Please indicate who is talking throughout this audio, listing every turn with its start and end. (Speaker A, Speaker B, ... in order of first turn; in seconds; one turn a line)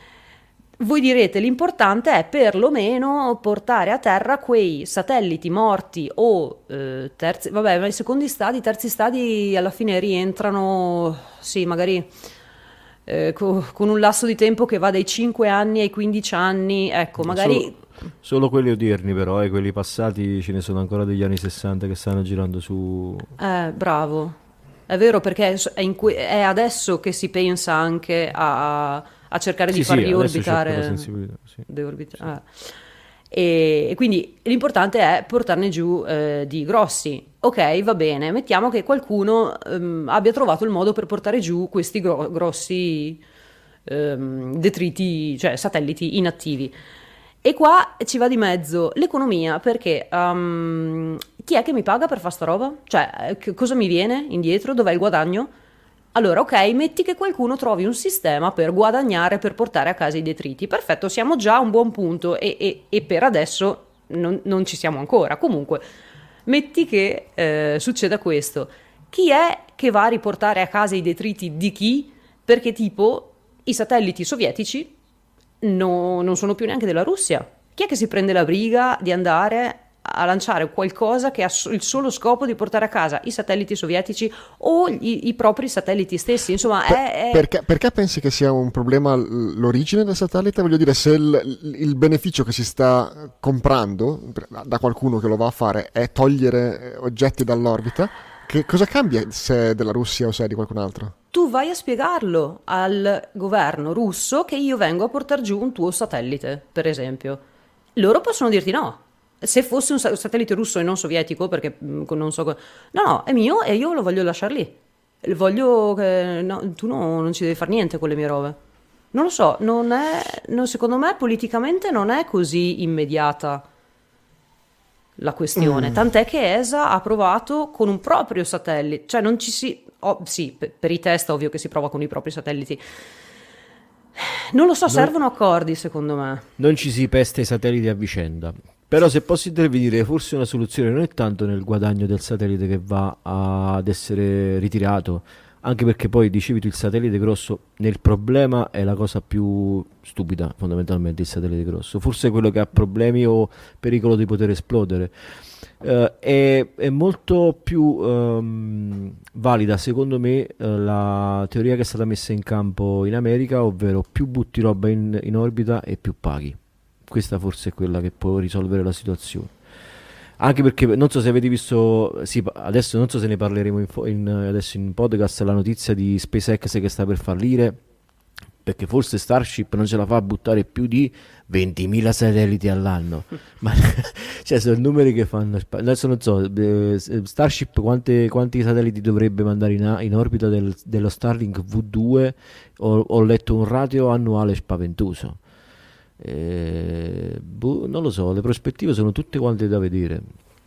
Speaker A: 0.8-12.1
Speaker A: 13.1-17.8
Speaker B: 17.2-23.3
Speaker A: 23.4-24.4
Speaker A: 24.9-31.1
Speaker B: 29.7-31.6
Speaker A: 31.6-32.6
Speaker A: 33.3-43.2
Speaker A: 43.9-46.7
Speaker A: 47.4-55.5
Speaker A: 56.1-65.8
Speaker A: 66.5-74.9
Speaker A: 75.6-87.5
Speaker C: 86.9-101.1
Speaker A: 101.3-107.4
Speaker A: 108.0-118.6
Speaker A: 119.1-123.6
Speaker A: 125.2-132.8
Speaker A: 134.2-136.4
Speaker B: 134.9-135.1
Speaker B: 136.6-155.1
Speaker B: 155.8-166.6
Speaker B: 167.1-169.5
Speaker B: 170.4-177.8
Speaker B: 178.6-195.4
Speaker B: 196.2-200.3